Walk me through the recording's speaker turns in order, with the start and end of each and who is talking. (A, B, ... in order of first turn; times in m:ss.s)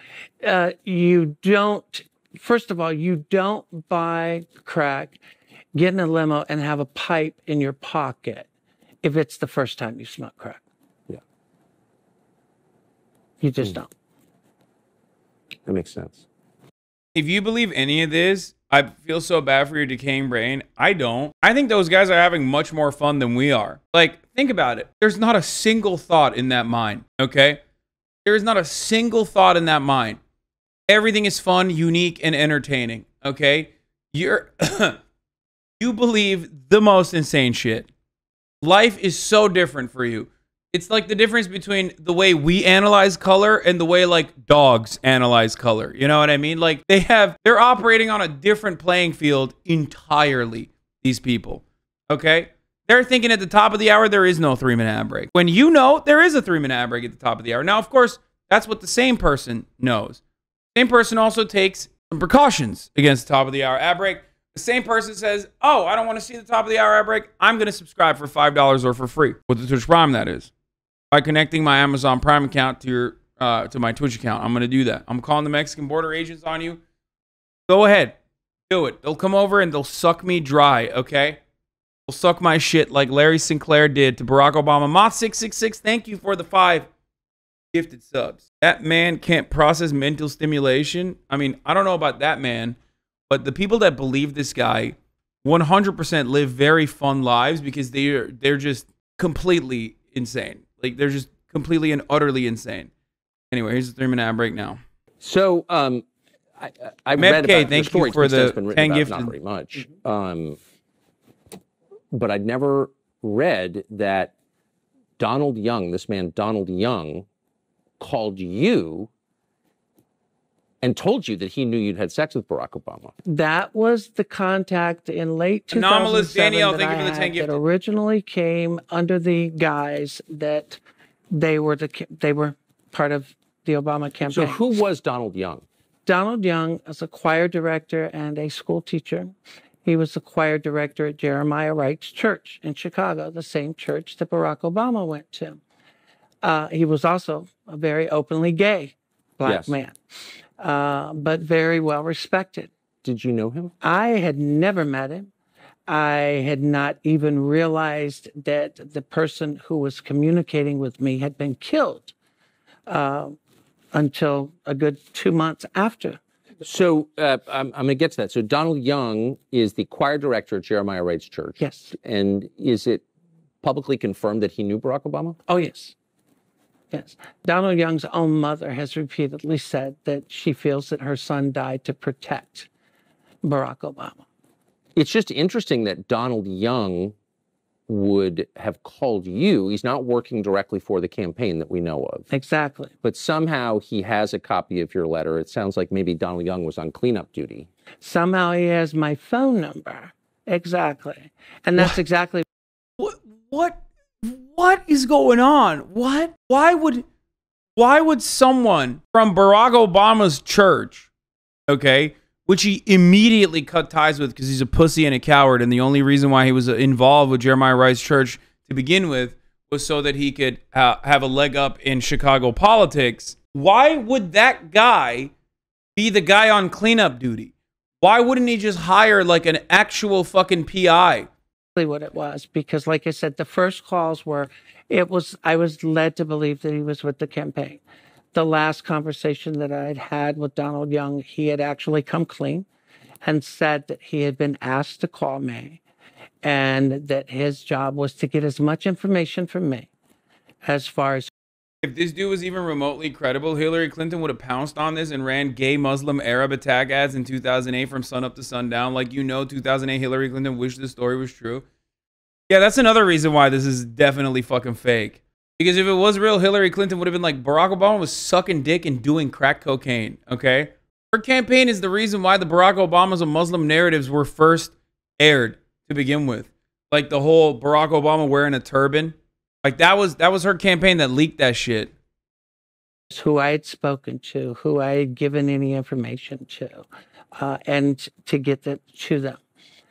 0:00.4-0:05.2 A
0:05.7-0:08.5 A
0:09.0-0:10.6 A
0:13.4-0:13.9 A
0:15.6-0:16.2 B
0:17.1-0:27.6 C
0:28.2-0:30.2 C
0:30.9-0:35.0 C
0:35.8-0:37.9 C
0:38.6-1:00.2 C
1:00.7-1:10.5 C
1:11.1-1:16.8 C
1:17.7-1:18.1 C
1:18.7-1:21.4 C
1:22.1-1:26.9 C
1:27.7-1:32.8 C
1:33.3-1:42.9 C
1:43.5-1:44.8 C
1:45.2-1:46.0 B
1:46.6-1:50.6 B
1:47.2-1:49.3 C
1:52.1-1:54.3 B
1:55.2-1:57.2 B
1:58.0-1:59.1 B
2:00.8-2:03.1 B
2:03.2-2:10.8 A
2:05.7-2:07.6 C
2:11.3-2:14.6 A
2:14.2-2:15.6 B
2:16.0-2:19.3 A
2:19.8-2:25.6 A
2:26.4-2:29.9 A
2:29.4-2:29.8 B
2:30.6-2:32.7 A
2:33.0-2:33.7 B
2:33.8-2:35.3 A
2:35.9-2:42.1 A
2:42.9-2:43.4 A
2:43.9-2:46.2 A
2:46.6-2:53.0 B
2:51.6-2:51.9 A
2:53.6-2:55.4 B
2:55.5-2:55.9 A
2:56.9-3:02.7 A
3:03.4-3:04.2 A
3:05.0-3:07.1 B
3:07.9-3:12.3 B
3:12.3-3:12.9 A
3:13.0-3:17.7 B
3:18.0-3:22.4 A
3:23.0-3:27.0 C
3:27.8-3:31.1 C
3:31.7-3:45.3 C
3:46.0-3:51.3 C
3:51.7-3:57.8 A
3:58.3-4:02.6 A
4:03.2-4:05.8 A
4:06.4-4:09.9 A
4:10.6-4:11.3 A
4:11.8-4:21.6 C
4:22.5-4:41.9 C
4:43.1-4:46.8 A
4:47.4-4:49.4 A